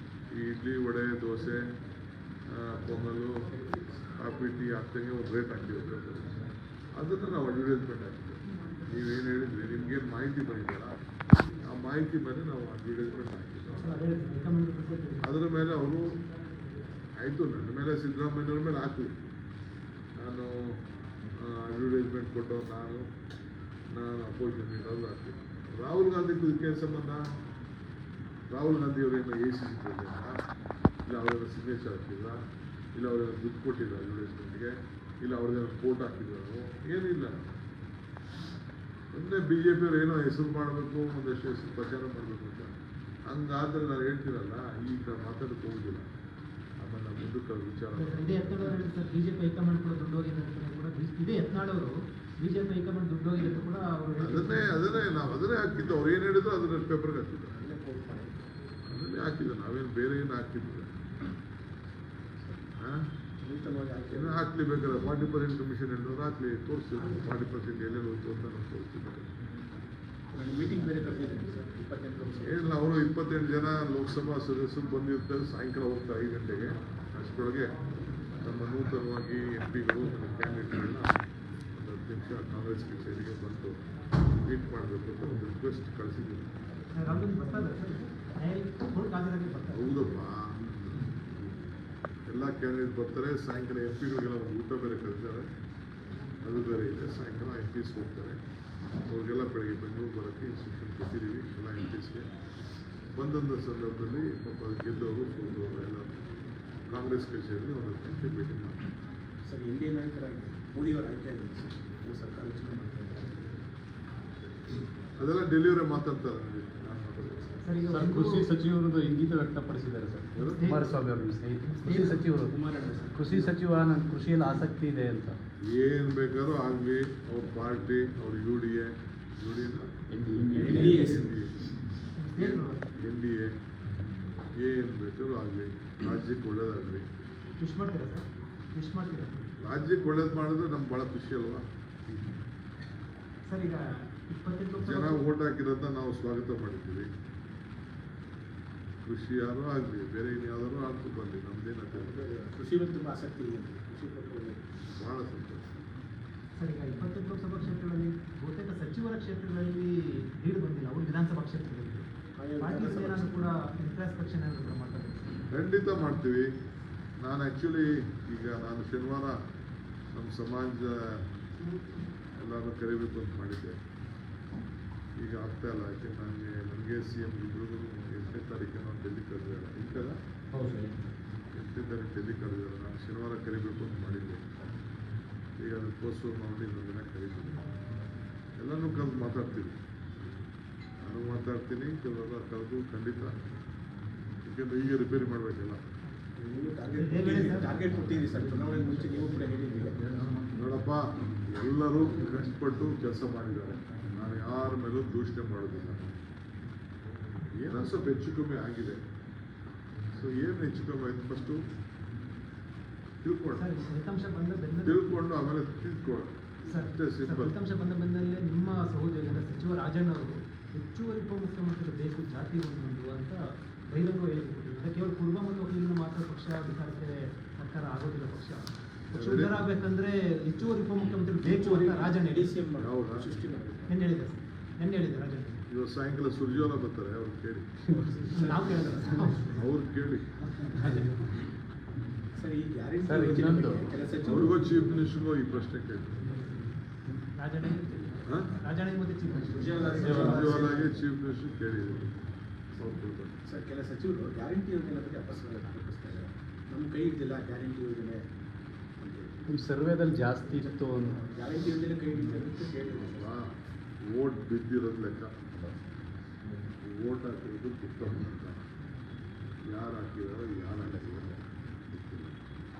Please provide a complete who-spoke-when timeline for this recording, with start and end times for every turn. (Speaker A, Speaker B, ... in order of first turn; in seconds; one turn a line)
Speaker A: 0.3-1.7
Speaker A: 2.5-11.0
Speaker A: 11.6-13.8
Speaker B: 13.8-15.3
Speaker A: 15.2-16.2
Speaker A: 17.2-19.2
Speaker A: 20.1-20.8
Speaker A: 21.3-23.1
Speaker A: 23.9-27.2
Speaker A: 28.5-30.4
Speaker A: 31.0-32.4
Speaker A: 32.9-37.6
Speaker A: 39.1-42.7
Speaker A: 43.3-46.1
Speaker A: 46.8-48.6
Speaker B: 48.0-54.9
Speaker A: 54.2-57.5
Speaker C: 57.5-58.4
Speaker A: 58.9-60.9
Speaker C: 62.4-62.6
Speaker A: 62.8-63.1
Speaker C: 63.4-64.4
Speaker A: 64.1-69.3
Speaker C: 70.3-72.9
Speaker A: 72.4-77.7
Speaker A: 78.4-81.1
Speaker A: 81.7-86.5
Speaker B: 87.0-90.0
Speaker A: 89.7-90.8
Speaker A: 92.3-95.5
Speaker A: 96.4-98.4
Speaker A: 99.1-102.3
Speaker A: 103.1-106.1
Speaker A: 106.9-108.8
Speaker C: 109.5-113.4
Speaker A: 115.2-117.6
Speaker B: 117.6-118.5
Speaker D: 117.9-122.6
Speaker A: 120.3-120.6
Speaker B: 120.5-120.8
Speaker B: 121.7-122.2
Speaker C: 121.8-123.5
Speaker D: 123.1-125.4
Speaker A: 125.6-129.9
Speaker D: 130.1-131.1
Speaker C: 130.5-131.3
Speaker A: 130.6-131.7
Speaker B: 132.2-132.9
Speaker A: 133.0-133.5
Speaker A: 134.5-137.1
Speaker B: 137.6-139.5
Speaker A: 139.6-142.2
Speaker B: 143.4-145.2
Speaker A: 144.8-147.1
Speaker A: 149.0-152.2
Speaker C: 151.9-154.6
Speaker A: 154.9-155.8
Speaker B: 156.6-162.1
Speaker C: 162.4-163.4
Speaker B: 162.6-165.4
Speaker A: 165.5-166.5
Speaker A: 167.2-169.4
Speaker A: 170.1-171.2
Speaker A: 172.3-173.8
Speaker A: 175.2-180.2
Speaker C: 180.5-181.0
Speaker A: 181.5-184.4
Speaker A: 185.6-187.6
Speaker A: 188.6-189.8
Speaker A: 191.0-193.3
Speaker A: 194.4-195.8
Speaker C: 196.3-200.4
Speaker B: 196.9-197.7
Speaker A: 200.5-206.1
Speaker A: 207.5-209.0
Speaker A: 210.1-211.7
Speaker A: 213.2-213.7
Speaker B: 213.5-215.2
Speaker A: 214.8-217.5
Speaker B: 216.6-232.6
Speaker A: 229.1-229.6
Speaker C: 231.4-233.9
Speaker A: 232.8-233.3
Speaker B: 233.9-235.6
Speaker A: 235.7-237.7
Speaker C: 237.9-239.2
Speaker B: 238.3-239.6
Speaker A: 239.5-240.4
Speaker D: 240.8-241.3
Speaker C: 242.3-244.7
Speaker D: 243.0-243.9
Speaker A: 244.2-246.3
Speaker B: 247.3-250.6
Speaker A: 248.2-248.5
Speaker C: 249.5-251.1
Speaker D: 250.0-250.5
Speaker A: 250.0-252.1
Speaker A: 252.8-253.4
Speaker C: 253.4-258.2
Speaker C: 259.0-259.4
Speaker D: 259.5-261.2
Speaker C: 261.1-263.4
Speaker A: 262.9-265.4
Speaker A: 266.8-268.6
Speaker A: 269.6-272.4